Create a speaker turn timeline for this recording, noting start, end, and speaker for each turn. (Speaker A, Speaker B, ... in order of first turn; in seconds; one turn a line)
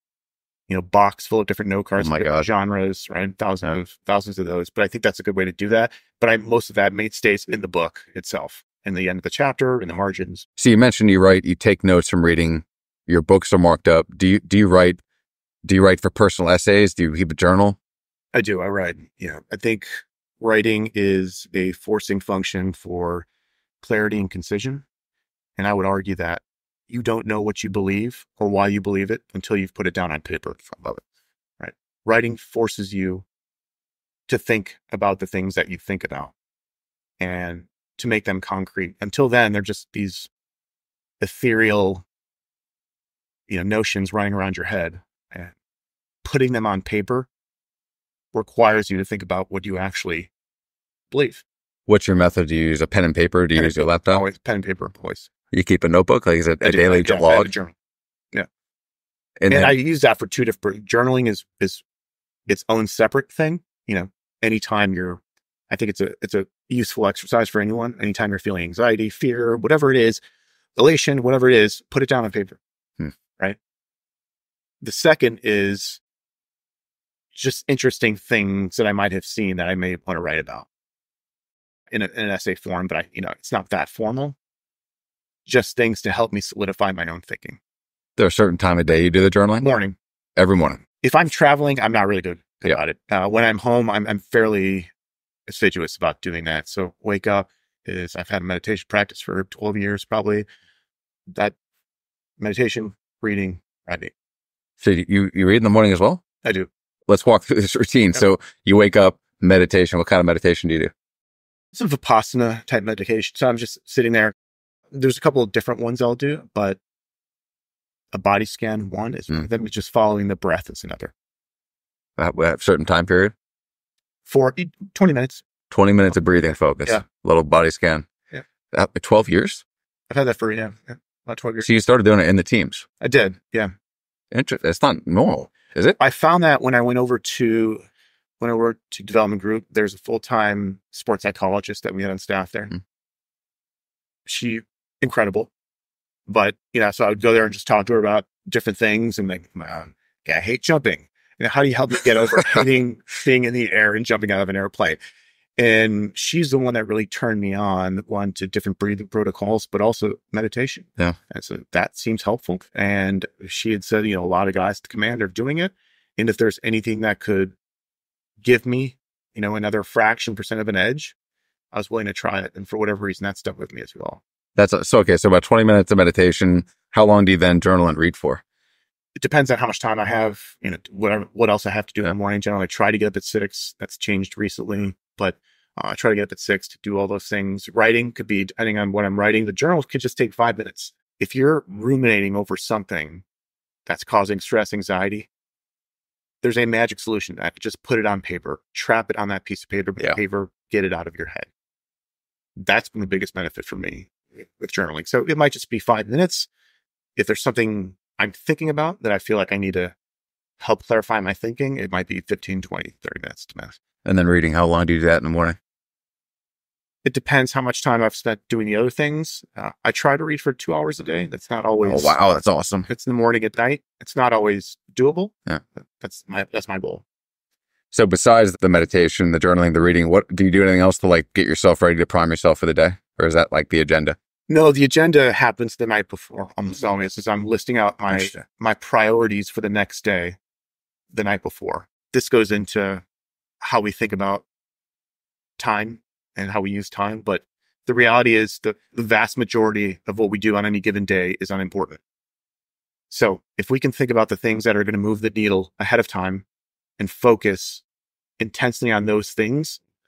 Speaker A: 0.7-10.4
Speaker B: 2.0-2.5
Speaker B: 10.6-15.0
Speaker B: 15.6-17.8
Speaker A: 18.3-23.2
Speaker A: 23.8-24.8
Speaker A: 25.6-30.8
Speaker B: 30.7-31.0
Speaker A: 31.6-33.2
Speaker A: 34.3-36.3
Speaker A: 37.2-40.3
Speaker A: 41.2-42.0
Speaker A: 43.5-45.5
Speaker A: 46.2-47.3
Speaker A: 48.3-50.3
Speaker A: 51.1-51.4
Speaker B: 51.9-54.2
Speaker A: 53.5-55.3
Speaker B: 55.5-57.5
Speaker A: 56.6-57.7
Speaker B: 59.4-59.7
Speaker A: 59.5-61.8
Speaker A: 62.5-70.2
Speaker A: 70.8-72.6
Speaker A: 74.8-76.0
Speaker A: 77.3-80.7
Speaker A: 81.9-84.4
Speaker A: 85.5-87.6
Speaker B: 88.2-89.7
Speaker A: 89.6-90.0
Speaker B: 90.4-90.8
Speaker A: 91.0-94.9
Speaker A: 95.5-100.5
Speaker A: 101.3-101.5
Speaker A: 102.4-104.1
Speaker B: 104.8-106.2
Speaker A: 106.4-106.7
Speaker B: 107.1-110.9
Speaker A: 111.7-114.3
Speaker A: 114.9-116.8
Speaker A: 118.1-121.1
Speaker B: 122.2-123.3
Speaker A: 124.2-125.4
Speaker B: 125.7-128.1
Speaker B: 128.7-129.6
Speaker A: 130.1-131.7
Speaker B: 131.6-132.9
Speaker A: 133.0-133.7
Speaker B: 134.3-136.0
Speaker A: 136.0-137.8
Speaker A: 138.4-142.8
Speaker A: 144.2-145.5
Speaker A: 146.3-155.0
Speaker A: 155.6-167.5
Speaker A: 168.4-171.1
Speaker A: 171.7-174.2
Speaker B: 174.6-178.4
Speaker A: 179.2-193.2
Speaker A: 193.9-195.3
Speaker A: 196.4-201.5
Speaker A: 202.6-206.5
Speaker A: 207.2-209.9
Speaker A: 210.6-213.8
Speaker B: 214.0-215.6
Speaker A: 217.1-222.1
Speaker B: 221.8-222.9
Speaker A: 222.9-225.3
Speaker A: 226.0-227.1
Speaker B: 227.9-234.2
Speaker A: 234.5-240.4
Speaker B: 238.1-238.4
Speaker A: 241.1-243.0
Speaker A: 243.6-244.4
Speaker A: 245.6-252.0
Speaker A: 253.1-256.4
Speaker A: 257.0-257.8
Speaker A: 258.4-259.8